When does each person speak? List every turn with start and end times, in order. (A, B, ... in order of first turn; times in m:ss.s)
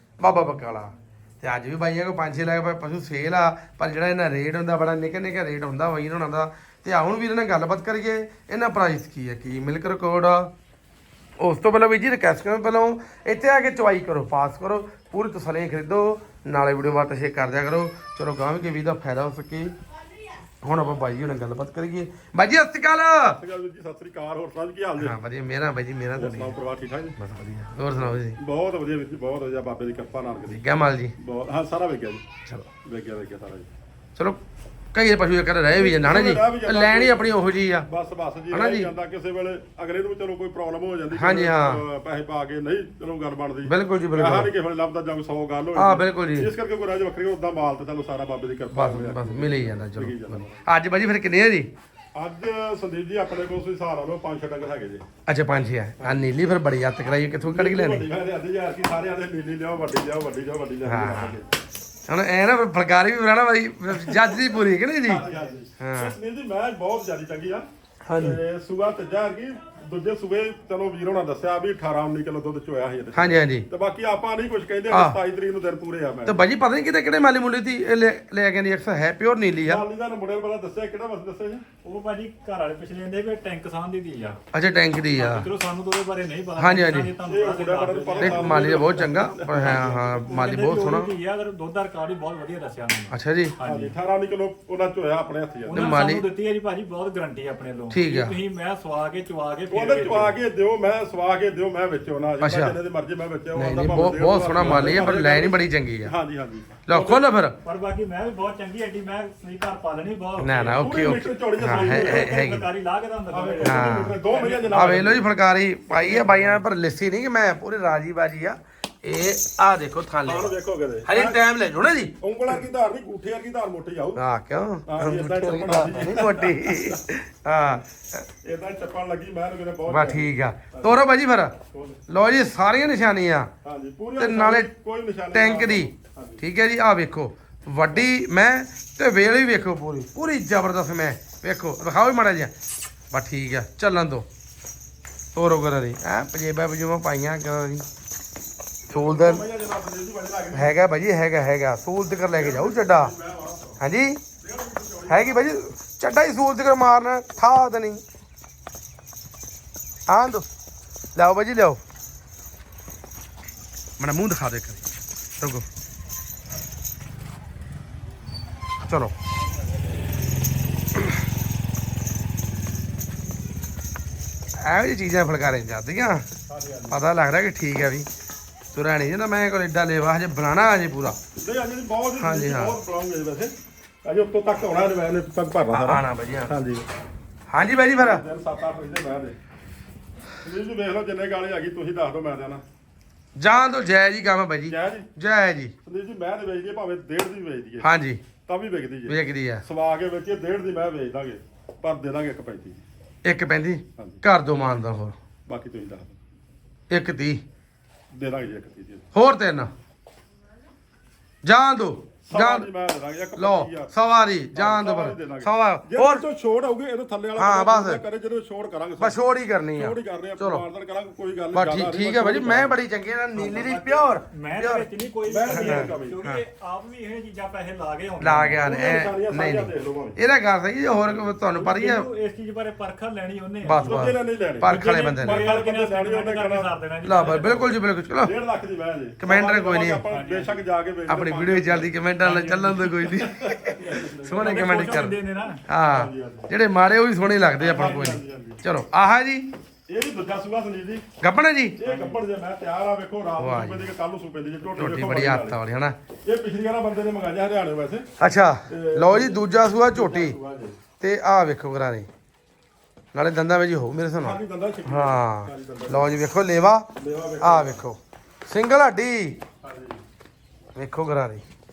0:00.2-0:10.5 A
0:11.4-0:19.8 A
0:20.6-0:23.4 A
0:23.3-0:25.2 B
0:25.0-0:26.6 A
0:26.2-0:27.2 B
0:27.2-0:28.4 A
0:28.0-0:30.6 B
0:30.5-0:31.1 A
0:31.2-0:32.2 B
0:32.8-0:33.7 B
0:34.9-0:37.9 A
0:35.8-0:37.3 B
0:37.8-0:50.6 B
0:38.5-0:38.9 A
0:41.1-0:41.8 A
0:43.6-0:44.5 A
0:45.8-0:46.5 A
0:48.7-0:51.7 A
0:52.2-0:55.1 B
0:55.3-0:58.1 A
0:56.0-0:56.3 B
0:57.4-1:01.5 B
1:00.8-1:01.4 A
1:02.1-1:05.2 A
1:04.1-1:04.4 B
1:05.1-1:07.6 B
1:05.8-1:06.2 A
1:08.0-1:08.4 A
1:08.2-1:16.4 B
1:13.1-1:13.7 A
1:14.9-1:15.2 A
1:16.2-1:19.8 A
1:19.6-1:21.6 B
1:21.8-1:24.4 C
1:24.5-1:25.5 A
1:25.1-1:28.8 C
1:26.6-1:27.1 A
1:27.3-1:30.1 B
1:28.2-1:31.1 A
1:29.6-1:33.9 C
1:33.1-1:33.5 A
1:33.6-1:35.9 B
1:35.6-1:40.4 C
1:35.8-1:36.2 A
1:37.9-1:38.4 A
1:39.7-1:47.2 B
1:42.4-1:42.8 A
1:43.6-1:46.1 A
1:44.6-1:45.0 C
1:46.9-1:47.6 A
1:47.6-1:50.8 C
1:50.4-1:52.7 A
1:50.8-1:52.4 B
1:51.6-1:55.1 C
1:53.3-1:55.2 B
1:53.6-1:54.2 A
1:54.7-2:00.6 A
1:55.9-1:56.6 C
2:00.2-2:01.4 B
2:01.0-2:02.6 A
2:02.2-2:04.2 B
2:04.2-2:08.2 A
2:04.9-2:07.0 B
2:08.4-2:11.0 B
2:09.9-2:11.5 A
2:11.7-2:12.0 B
2:12.1-2:13.5 A
2:13.6-2:16.4 B
2:14.2-2:14.7 A
2:15.3-2:22.5 A
2:23.1-2:24.2 A
2:25.3-2:27.8 A
2:28.9-2:30.8 B
2:28.9-2:29.4 A
2:30.5-2:33.1 A
2:32.3-2:33.8 B
2:33.8-2:34.2 A
2:34.4-2:35.6 B
2:35.1-2:38.0 A
2:40.1-2:40.4 A
2:41.2-2:41.8 A
2:44.0-2:44.8 A
2:45.4-2:45.7 A
2:48.8-2:49.1 A
2:54.6-2:56.2 A
2:56.5-2:57.0 B
2:56.9-2:58.1 A
2:58.7-3:01.2 A
3:01.4-3:03.5 B
3:02.2-3:02.8 A
3:04.0-3:06.8 B
3:05.7-3:06.5 A
3:07.5-3:08.2 A
3:08.0-3:09.4 B
3:10.4-3:12.6 B
3:13.4-3:15.7 A
3:14.7-3:15.1 B
3:15.8-3:17.9 B
3:17.8-3:18.2 A
3:18.4-3:22.8 B
3:19.1-3:19.6 A
3:23.2-3:25.2 A
3:24.0-3:24.2 B
3:25.5-3:26.2 B
3:26.9-3:27.4 A
3:28.1-3:29.1 B
3:29.1-3:29.7 A
3:31.4-3:32.7 A
3:32.2-3:33.9 B
3:33.4-3:36.2 A
3:34.5-3:39.2 B
3:37.4-3:38.0 A
3:39.0-3:40.6 A
3:39.7-3:42.8 B
3:41.5-3:44.9 A
3:43.3-3:48.6 C
3:45.3-3:46.2 B
3:45.5-3:46.4 A
3:48.2-3:52.1 A
3:48.6-3:50.2 B
3:51.1-3:51.4 B
3:51.5-3:54.1 C
3:53.6-3:55.5 A
3:53.8-3:56.7 B
3:54.6-3:57.7 C
3:57.0-3:58.3 A
3:58.2-4:01.9 B
3:59.2-4:00.0 A
4:00.1-4:00.6 C
4:01.1-4:09.5 A
4:02.2-4:03.2 C
4:03.1-4:05.0 B
4:04.4-4:05.6 C
4:05.9-4:06.5 B
4:07.6-4:08.6 B
4:09.9-4:11.1 B
4:11.2-4:11.8 A
4:11.8-4:15.6 B
4:11.8-4:12.2 C
4:13.4-4:13.9 A
4:14.7-4:15.9 A
4:16.2-4:18.1 B
4:18.2-4:20.4 A
4:18.7-4:20.8 B
4:21.0-4:22.1 A
4:23.1-4:26.9 A
4:24.2-4:26.2 B
4:26.9-4:27.8 B
4:27.4-4:29.4 A
4:29.6-4:30.0 B
4:30.8-4:31.4 A